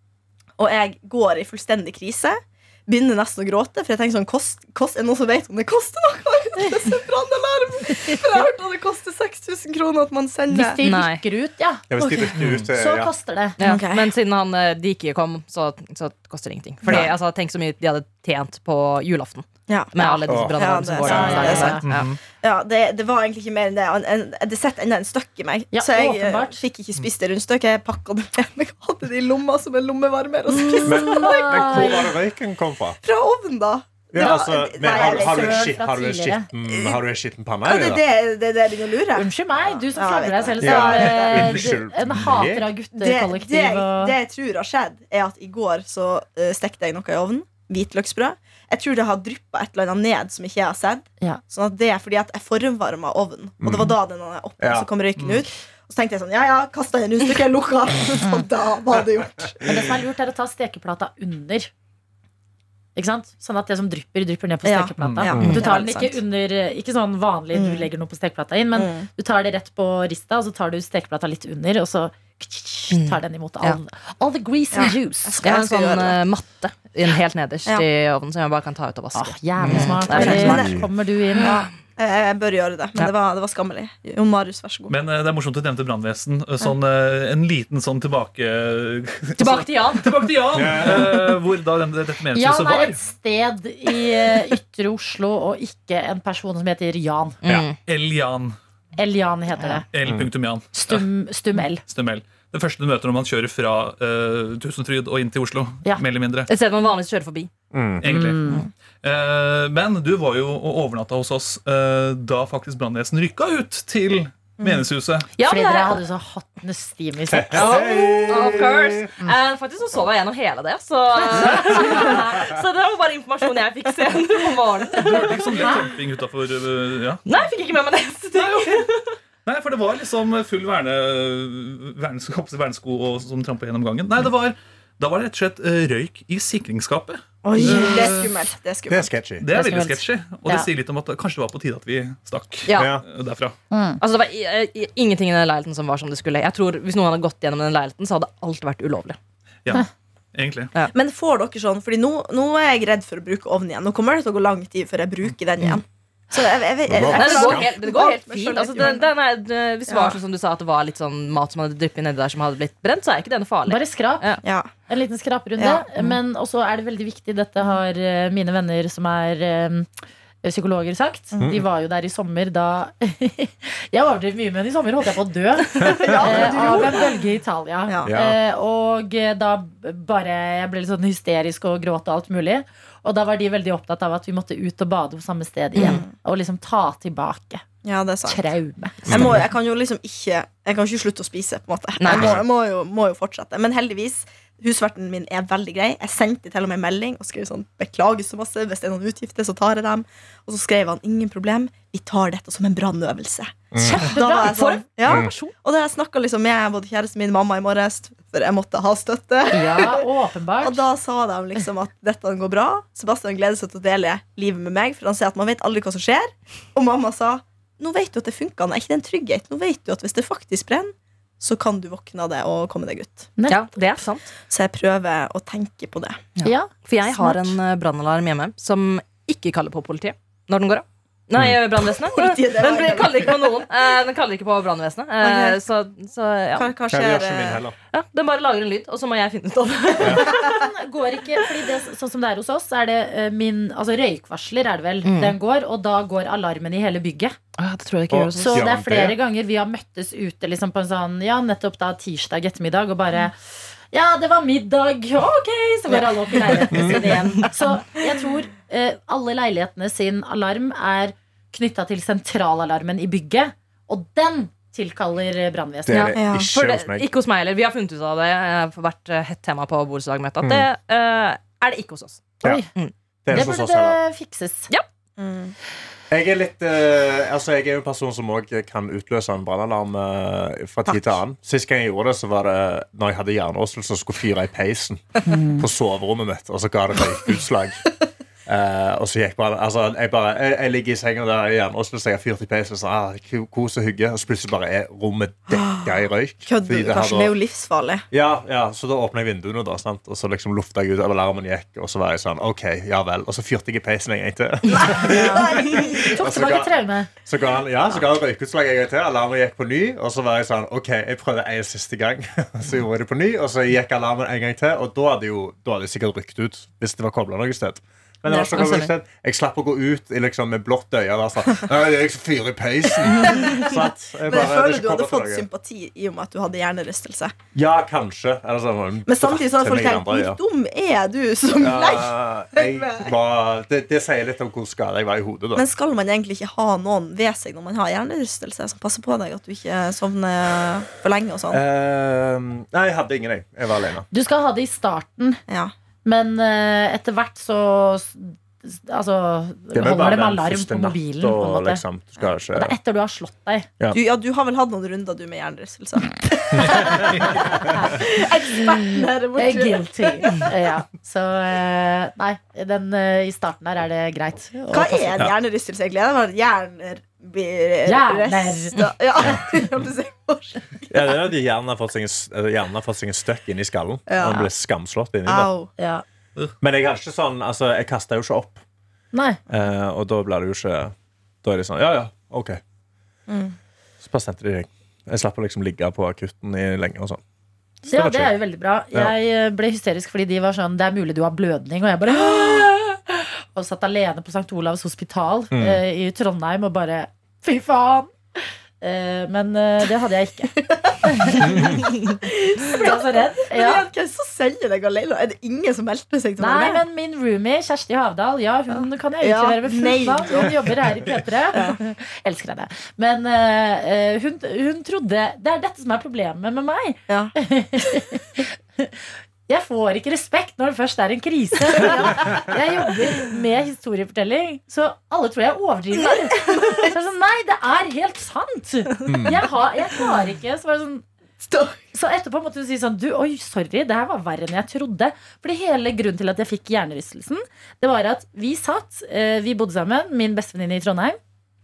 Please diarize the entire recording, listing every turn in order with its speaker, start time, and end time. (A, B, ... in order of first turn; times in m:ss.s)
0:00.6-0:10.8 A
0:08.1-0:08.4 B
0:10.5-0:13.6 B
0:10.8-0:11.2 C
0:11.9-0:13.1 D
0:12.4-0:12.7 E
0:13.6-0:22.1 C
0:13.6-0:14.1 A
0:19.7-0:21.8 A
0:20.0-0:20.2 B
0:20.3-0:20.6 D
0:21.0-0:21.8 B
0:21.8-0:22.2 E
0:22.4-0:32.0 A
0:25.7-0:26.6 B
0:30.5-0:32.1 B
0:30.8-0:33.0 D
0:33.0-0:35.7 A
0:34.1-0:38.0 D
0:34.2-0:36.5 B
0:36.6-0:37.0 A
0:37.6-0:41.6 A
0:39.1-0:44.1 B
0:40.6-0:42.7 D
0:43.0-0:59.6 A
0:53.6-0:53.9 D
0:54.6-0:54.9 D
0:55.2-0:55.4 E
0:59.6-1:01.7 B
1:03.0-1:15.5 B
1:04.6-1:06.2 A
1:05.0-1:05.3 E
1:05.3-1:05.6 D
1:07.5-1:07.9 A
1:08.7-1:09.1 A
1:12.9-1:13.8 C
1:14.7-1:16.2 A
1:15.4-1:20.7 C
1:19.1-1:21.6 B
1:19.7-1:20.9 A
1:20.4-1:20.9 D
1:21.4-1:24.9 A
1:24.9-1:33.0 E
1:29.4-1:30.2 C
1:30.5-1:31.2 D
1:32.3-1:37.4 B
1:37.4-1:37.8 C
1:37.8-1:38.6 E
1:39.0-1:39.8 B
1:39.9-1:41.0 E
1:40.0-1:40.3 D
1:40.7-1:41.8 B
1:41.8-1:46.5 E
1:46.5-1:47.5 C
1:47.7-1:48.1 D
1:48.0-1:48.4 E
1:48.0-1:48.6 B
1:49.0-1:55.3 E
1:54.6-1:54.8 A
1:55.4-1:56.0 C
1:55.4-1:57.8 B
1:57.3-1:59.1 D
1:57.5-2:05.7 C
2:01.5-2:02.1 B
2:05.0-2:07.2 E
2:05.1-2:05.9 B
2:07.2-2:09.2 C
2:08.3-2:08.8 E
2:09.4-2:18.3 E
2:17.4-2:19.1 A
2:17.6-2:18.1 B
2:18.9-2:19.5 D
2:19.4-2:23.6 E
2:19.5-2:20.7 B
2:22.7-2:22.9 C
2:22.7-2:23.0 D
2:23.7-2:24.0 B
2:24.0-2:29.2 C
2:29.6-2:30.7 E
2:30.9-2:39.1 A
2:36.9-2:37.7 D
2:37.1-2:44.4 C
2:39.9-2:40.2 A
2:43.7-2:49.9 B
2:44.4-2:44.7 A
2:45.6-2:45.9 A
2:50.4-3:07.6 B
2:51.4-2:51.6 D
2:55.8-2:57.1 A
2:58.0-2:58.4 D
3:05.7-3:06.0 C
3:05.8-3:06.1 A
3:07.8-3:08.5 A
3:08.2-3:09.1 B
3:09.0-3:30.0 A
3:09.1-3:09.4 D
3:12.0-3:12.4 C
3:12.1-3:12.4 D
3:23.7-3:24.1 D
3:23.8-3:24.8 B
3:23.9-3:25.5 C
3:25.0-3:25.3 D
3:29.5-3:30.8 B
3:30.6-3:43.3 A
3:43.5-3:44.3 C
3:44.5-3:46.2 A
3:46.4-3:56.7 C
3:46.4-3:47.6 B
3:51.9-3:53.7 A
3:55.2-3:55.6 A
3:56.5-3:57.6 A
3:56.9-3:57.7 D
3:57.9-4:00.6 C
4:00.0-4:00.3 D
4:00.3-4:07.4 B
4:05.0-4:05.3 C
4:07.6-4:08.6 C
4:08.1-4:09.2 D
4:08.4-4:13.4 B
4:13.9-4:26.2 B
4:16.7-4:17.1 D
4:25.8-4:27.1 D
4:25.9-4:32.9 C
4:26.1-4:26.5 A
4:30.4-4:30.7 D
4:32.4-4:32.7 B
4:33.2-4:34.0 D
4:33.3-4:34.7 B
4:35.2-4:35.5 A
4:36.1-4:47.8 D
4:40.9-4:41.1 A
4:45.2-4:45.7 B
4:48.4-4:57.3 D
4:56.4-4:58.0 A
4:58.1-5:25.5 D
5:04.7-5:06.2 A
5:06.0-5:07.1 B
5:18.3-5:18.8 B
5:18.5-5:18.9 C
5:23.2-5:27.3 A
5:27.5-5:30.4 D
5:29.1-5:33.1 A
5:31.6-5:35.6 D
5:35.5-5:41.6 A
5:41.5-5:44.1 D
5:44.1-5:45.4 B
5:45.5-5:45.7 A
5:46.0-5:51.8 B
5:49.7-5:52.7 D
5:52.5-5:53.7 B
5:53.9-6:00.4 A
5:56.7-5:57.3 D
5:57.5-5:58.0 B
5:58.7-6:05.2 B
6:04.7-6:10.9 A
6:07.8-6:08.8 B
6:10.9-6:15.5 D
6:14.1-6:14.4 A
6:15.2-6:15.7 A
6:15.8-6:16.0 B
6:16.6-6:18.6 D
6:19.1-6:19.4 B
6:19.5-6:22.6 D
6:23.3-6:23.6 A
6:24.0-6:27.2 D
6:27.8-6:40.5 B
6:27.9-6:28.3 D
6:35.5-6:35.8 D
6:40.5-6:46.8 A
6:41.0-6:41.7 B
6:41.5-6:41.8 D
6:42.6-6:43.8 B
6:46.4-7:11.0 B
6:49.2-6:50.7 A
6:51.5-6:51.8 A
6:57.1-6:57.3 A
7:01.8-7:02.6 A
7:06.0-7:06.9 A
7:09.0-7:09.4 D
7:11.4-7:11.8 A
7:11.9-7:21.2 B